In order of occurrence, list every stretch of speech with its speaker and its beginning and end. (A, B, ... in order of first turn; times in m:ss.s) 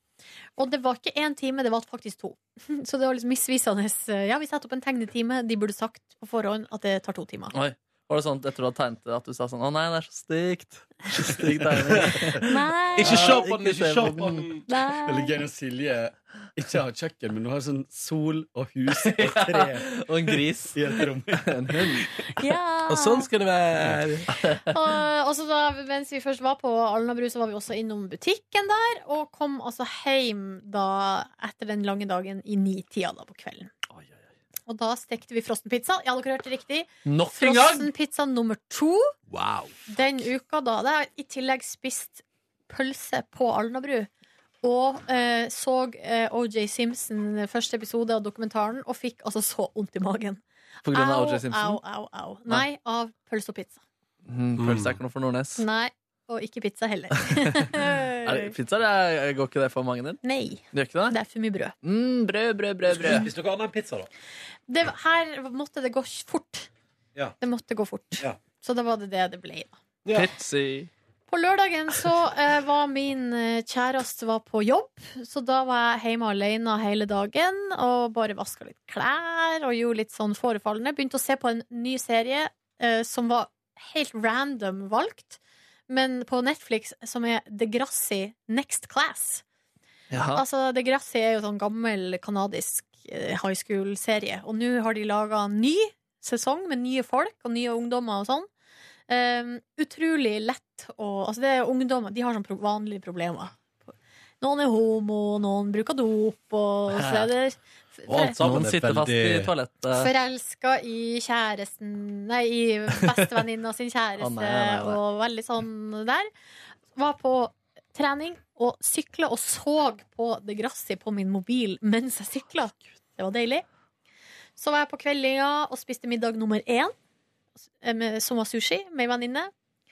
0:00.6-0:07.6 A
0:07.5-0:14.5 B
0:11.4-0:12.3 C
0:12.4-0:13.3 A
0:13.0-0:14.6 D
0:14.7-0:15.3 A
0:15.0-0:22.3 C
0:19.0-0:22.1 B
0:22.4-0:23.3 A
0:22.9-0:24.3 D
0:24.3-0:24.6 B
0:24.6-0:33.7 A
0:34.7-0:39.1 A
0:37.0-0:37.9 B
0:39.3-0:39.8 D
0:39.9-0:44.1 A
0:44.6-0:53.8 A
0:50.8-0:51.8 B
0:54.3-0:55.6 B
0:54.6-0:55.0 D
0:55.6-0:58.5 A
0:57.3-0:57.6 B
0:58.2-1:00.2 B
1:00.2-1:01.7 A
1:00.7-1:01.2 B
1:01.8-1:03.3 B
1:02.9-1:04.1 D
1:04.7-1:06.7 A
1:07.4-1:09.8 A
1:10.0-1:10.3 D
1:10.1-1:10.9 B
1:11.3-1:29.4 A
1:30.1-1:30.4 B
1:30.3-1:38.5 A
1:39.1-1:43.5 A
1:44.4-1:48.4 A
1:46.9-1:47.3 B
1:48.1-1:49.5 D
1:48.4-1:50.1 B
1:49.9-1:56.3 A
1:54.2-1:55.0 B
1:56.9-2:03.6 A
2:04.6-2:06.9 A
2:07.8-2:09.5 A